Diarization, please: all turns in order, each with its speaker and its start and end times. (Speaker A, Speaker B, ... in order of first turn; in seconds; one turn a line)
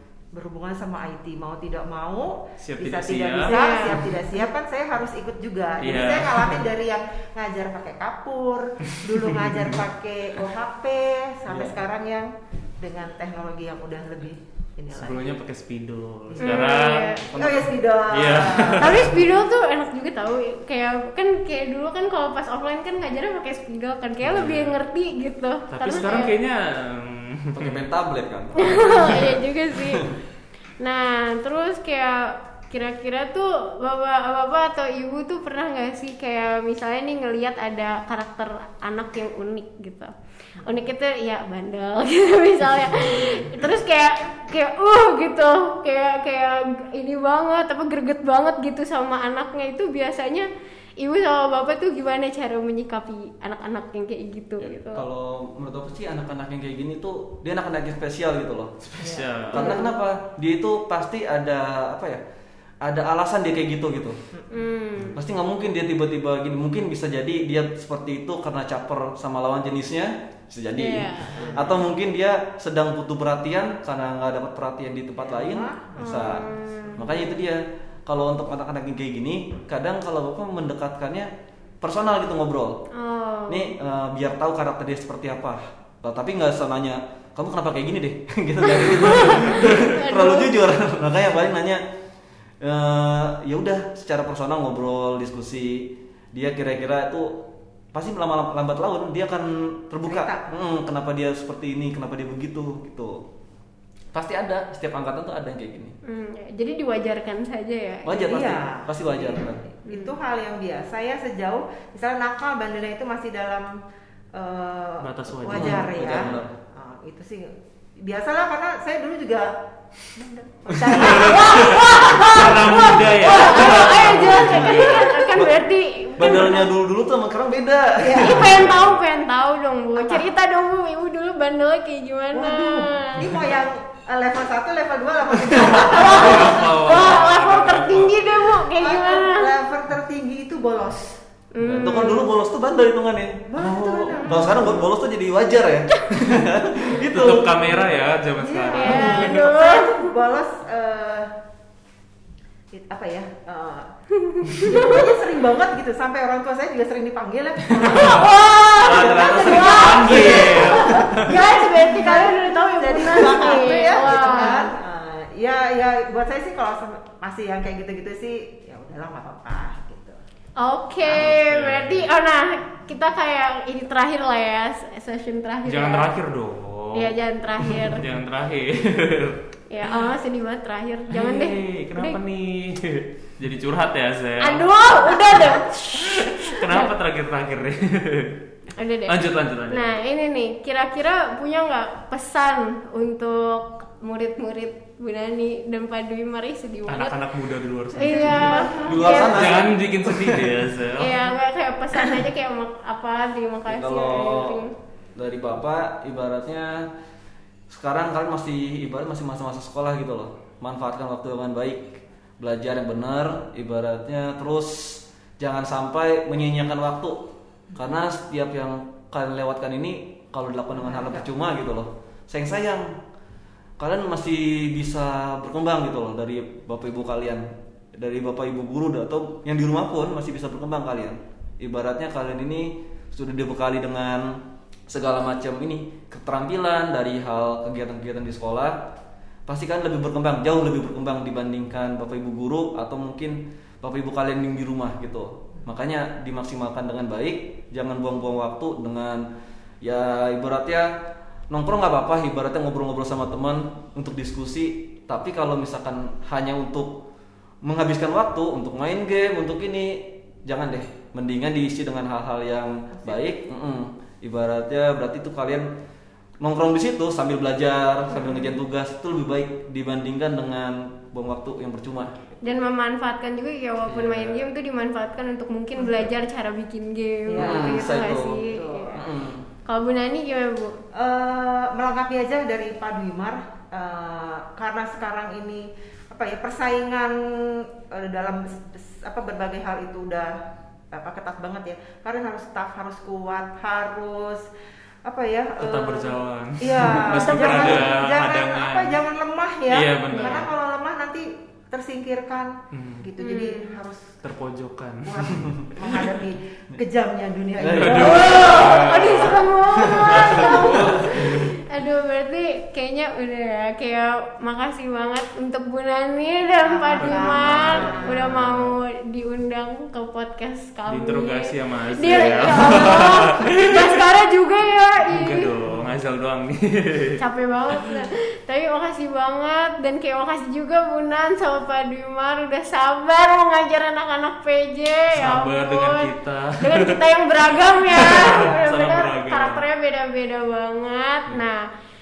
Speaker A: 0.3-15.3
Speaker B: 2.6-4.0
Speaker C: 3.4-4.0
Speaker B: 5.8-6.6
Speaker B: 9.0-9.8
Speaker D: 11.5-11.8
Speaker B: 14.9-19.2
Speaker A: 16.3-16.8
Speaker C: 16.4-17.2
Speaker A: 17.3-19.2
Speaker C: 18.8-26.3
Speaker B: 24.2-24.8
Speaker B: 25.7-27.9
Speaker D: 27.5-30.1
Speaker C: 28.6-30.1
Speaker C: 30.8-40.1
Speaker A: 40.6-40.9
Speaker C: 40.6-55.0
Speaker D: 54.6-58.8
Speaker B: 58.8-59.8
Speaker A: 59.0-59.7
Speaker D: 59.5-62.2
Speaker C: 59.5-59.9
Speaker D: 62.8-64.2
Speaker C: 64.5-65.2
Speaker D: 65.1-81.3
Speaker C: 70.8-71.6
Speaker A: 71.3-71.8
Speaker A: 75.2-76.5
Speaker C: 76.0-77.4
Speaker D: 81.8-82.9
Speaker C: 82.9-83.7
Speaker D: 83.5-91.8
Speaker C: 88.7-90.5
Speaker D: 92.6-103.2
Speaker A: 100.0-100.5
Speaker D: 104.1-106.0
Speaker C: 106.0-108.4
Speaker D: 108.0-109.6
Speaker A: 108.2-113.8
Speaker A: 114.3-125.4
Speaker B: 115.0-116.4
Speaker D: 115.5-116.5
Speaker D: 120.7-121.0
Speaker B: 120.9-125.2
Speaker C: 121.0-126.7
Speaker D: 126.2-128.7
Speaker A: 128.0-128.7
Speaker C: 128.2-133.2
Speaker B: 128.4-129.0
Speaker A: 130.0-130.3
Speaker A: 132.3-136.8
Speaker B: 135.6-138.2
Speaker C: 135.7-139.5
Speaker A: 138.7-141.2
Speaker C: 141.5-142.3
Speaker D: 141.6-147.8
Speaker A: 143.5-144.8
Speaker C: 144.3-144.8
Speaker B: 147.0-149.4
Speaker A: 148.4-151.3
Speaker C: 148.7-150.1
Speaker A: 152.7-153.9
Speaker C: 154.3-155.0
Speaker A: 154.4-170.2
Speaker B: 157.7-161.3
Speaker C: 157.8-164.7
Speaker C: 170.6-176.1
Speaker B: 171.0-172.1
Speaker B: 175.6-180.0
Speaker C: 176.9-178.1
Speaker C: 179.7-182.2
Speaker B: 181.1-188.4
Speaker C: 184.4-186.9
Speaker C: 188.8-197.2
Speaker B: 189.1-190.0
Speaker B: 196.9-201.2
Speaker C: 198.0-199.7
Speaker A: 198.0-199.2
Speaker D: 198.7-200.7
Speaker C: 201.0-204.7
Speaker D: 203.7-204.6
Speaker D: 205.1-206.9
Speaker D: 207.7-222.9
Speaker A: 220.7-221.3
Speaker D: 223.8-238.9
Speaker D: 239.5-249.2
Speaker D: 249.8-250.9
Speaker D: 251.5-257.0
Speaker D: 257.6-265.7
Speaker A: 262.9-263.3
Speaker D: 266.4-272.4
Speaker C: 272.4-279.0
Speaker B: 274.0-274.3
Speaker A: 275.8-276.1
Speaker A: 277.3-279.0
Speaker D: 277.4-279.4
Speaker C: 279.6-280.8
Speaker A: 280.9-290.4
Speaker A: 290.9-294.5
Speaker A: 295.0-304.2
Speaker B: 295.6-299.0
Speaker C: 297.1-297.9
Speaker B: 299.7-300.5
Speaker C: 300.1-300.4
Speaker B: 302.7-303.1
Speaker C: 303.2-303.7
Speaker B: 304.2-305.3
Speaker A: 305.0-308.9
Speaker D: 305.3-305.7
Speaker D: 307.6-308.3
Speaker B: 307.7-309.4
Speaker C: 307.9-325.5
Speaker D: 309.8-311.4
Speaker B: 310.0-311.4
Speaker A: 310.2-310.9
Speaker A: 316.6-318.4
Speaker B: 317.0-318.7
Speaker B: 320.9-324.0
Speaker B: 325.1-327.2
Speaker C: 327.2-341.7
Speaker B: 335.1-337.0
Speaker B: 337.8-339.6